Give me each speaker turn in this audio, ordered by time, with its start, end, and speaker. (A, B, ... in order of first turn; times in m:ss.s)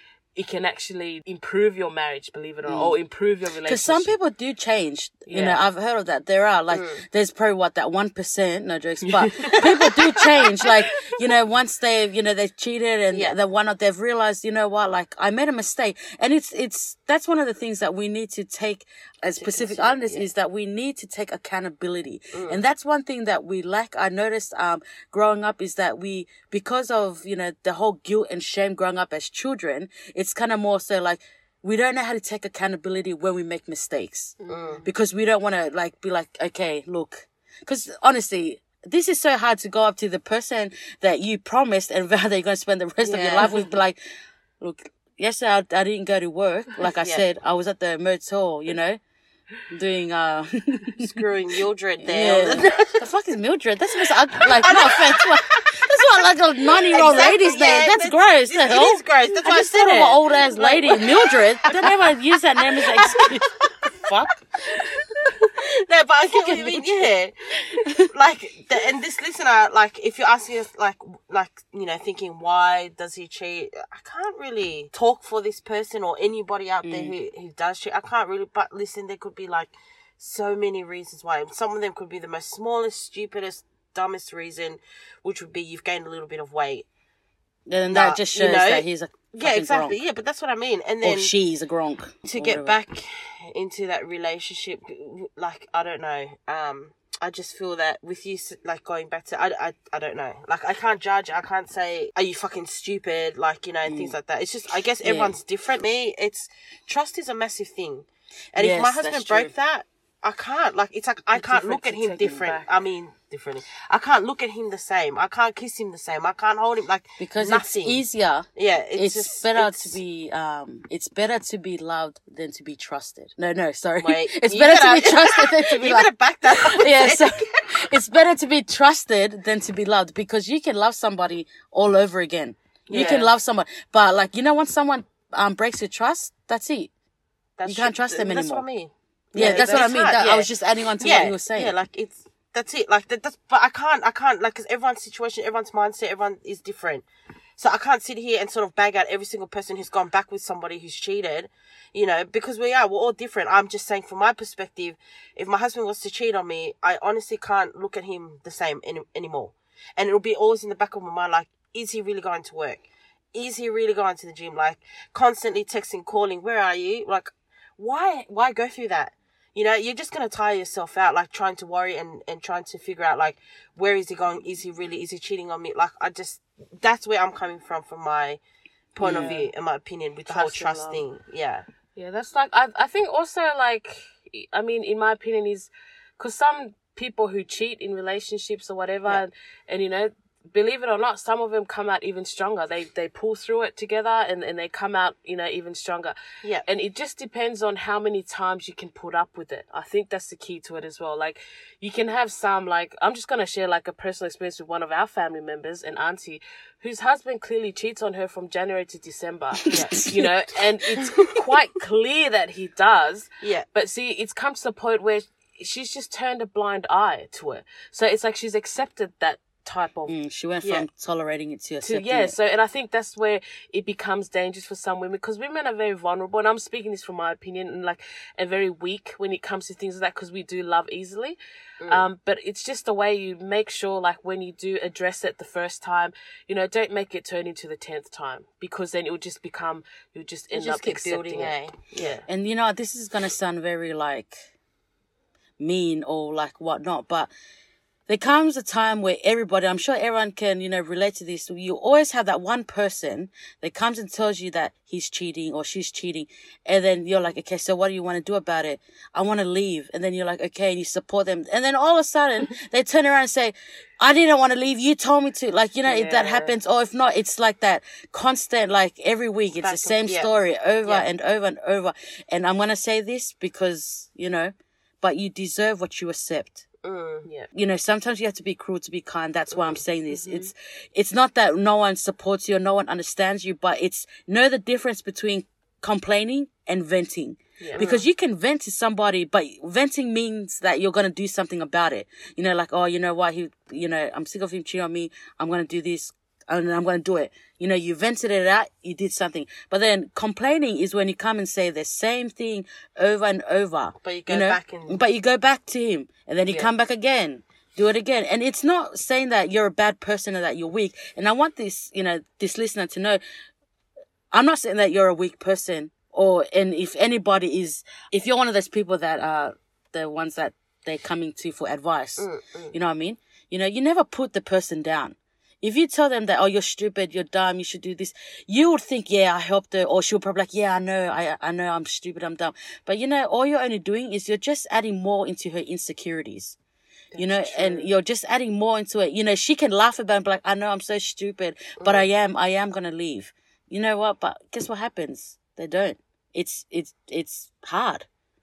0:00.4-0:04.1 A
0:03.7-0:44.0 B
0:05.3-0:05.6 A
0:06.7-0:07.0 C
0:09.0-0:10.0 A
0:13.1-0:13.4 C
0:19.4-0:20.3 C
0:22.3-0:22.6 C
0:34.4-0:34.9 A
0:34.5-0:34.8 C
0:43.0-0:43.7 C
0:44.6-0:49.0 B
0:46.8-0:47.2 C
0:49.7-0:51.0 B
0:51.0-0:53.0 C
0:52.0-1:04.6 B
0:54.6-0:56.0 C
0:56.7-1:02.0 C
1:02.6-1:03.7 C
1:04.7-1:26.9 C
1:06.4-1:07.1 B
1:16.8-1:17.2 B
1:27.7-1:30.0 B
1:27.9-1:31.3 C
1:31.0-1:32.8 B
1:32.4-1:58.0 C
1:43.8-1:44.2 B
1:45.0-1:45.4 B
1:48.6-1:49.5 B
1:51.3-1:52.7 A
1:57.2-2:16.9 B
1:58.6-2:00.0 C
2:04.0-2:07.7 C
2:12.9-2:13.3 C
2:12.9-2:13.3 A
2:17.6-2:27.1 C
2:17.6-2:18.6 B
2:19.3-2:19.9 A
2:19.4-2:21.7 B
2:27.6-2:58.4 C
2:58.9-3:01.6 C
2:59.0-2:59.3 B
2:59.1-2:59.5 A
3:00.3-3:01.0 A
3:02.0-3:40.1 A
3:29.6-3:30.1 B
3:29.7-3:30.0 C
3:40.1-3:42.4 B
3:41.8-4:02.2 A
4:00.5-4:02.2 C
4:02.3-4:04.5 B
4:05.6-4:07.3 B
4:08.1-4:36.6 B
4:25.9-4:26.6 A
4:29.6-4:30.3 C
4:36.8-4:37.3 C
4:37.5-5:13.2 B
4:39.5-4:39.8 C
4:40.1-4:40.5 A
4:47.8-4:48.1 C
5:04.0-5:05.0 C
5:14.3-5:36.6 B
5:22.2-5:22.8 C
5:37.1-5:37.9 A
5:37.2-5:48.1 B
5:41.8-5:42.1 C